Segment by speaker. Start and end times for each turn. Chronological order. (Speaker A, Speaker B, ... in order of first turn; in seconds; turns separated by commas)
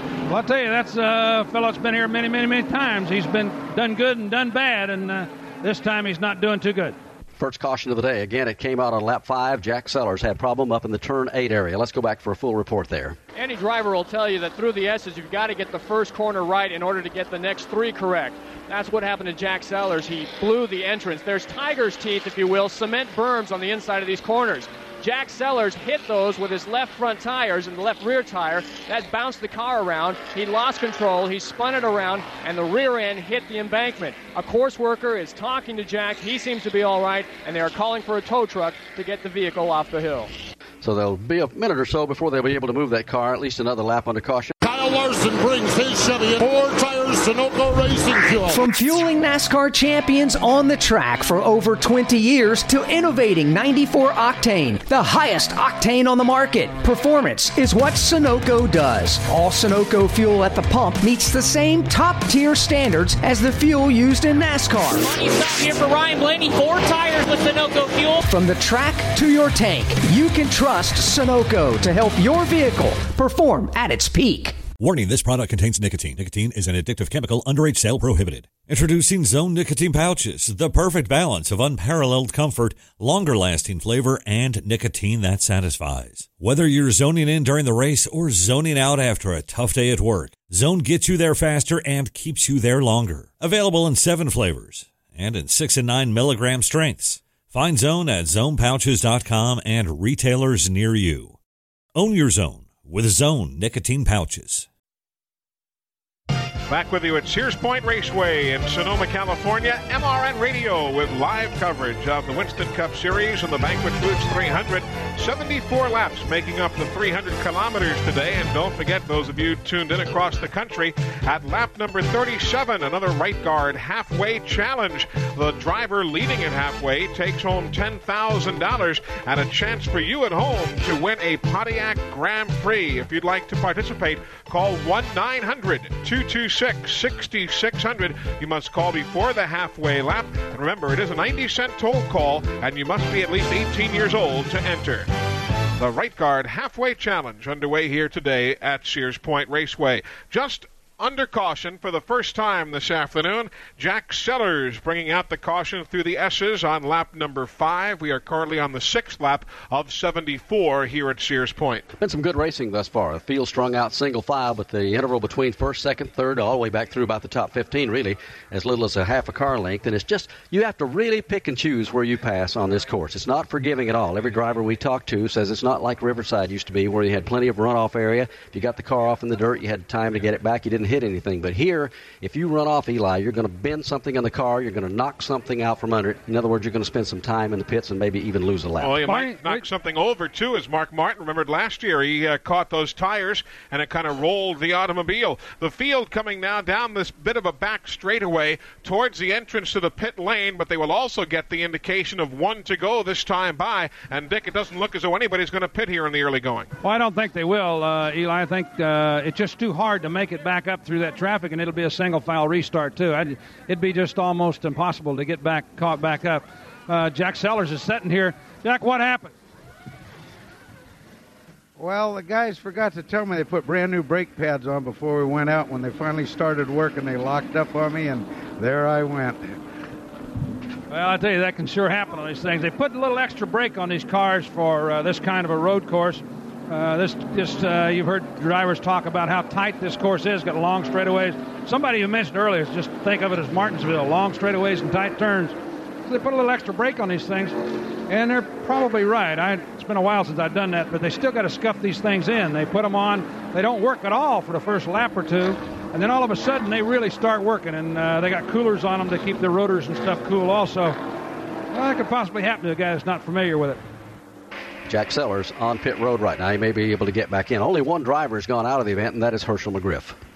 Speaker A: 0.3-7.0, Speaker B: 7.4-13.2, Speaker C: 13.3-40.3, Speaker B: 40.8-44.5, Speaker D: 44.6-48.6, Speaker E: 48.4-65.1, Speaker F: 65.2-68.2, Speaker E: 68.2-74.6, Speaker G: 74.8-101.4, Speaker G: 101.9-104.7, Speaker H: 106.7-145.1, Speaker H: 145.8-161.8, Speaker B: 162.0-189.0, Speaker H: 188.8-206.7, Speaker A: 189.1-189.6, Speaker A: 206.8-219.3, Speaker I: 221.8-229.6, Speaker A: 230.9-247.5, Speaker A: 248.1-261.0, Speaker A: 261.7-263.8, Speaker B: 264.9-270.1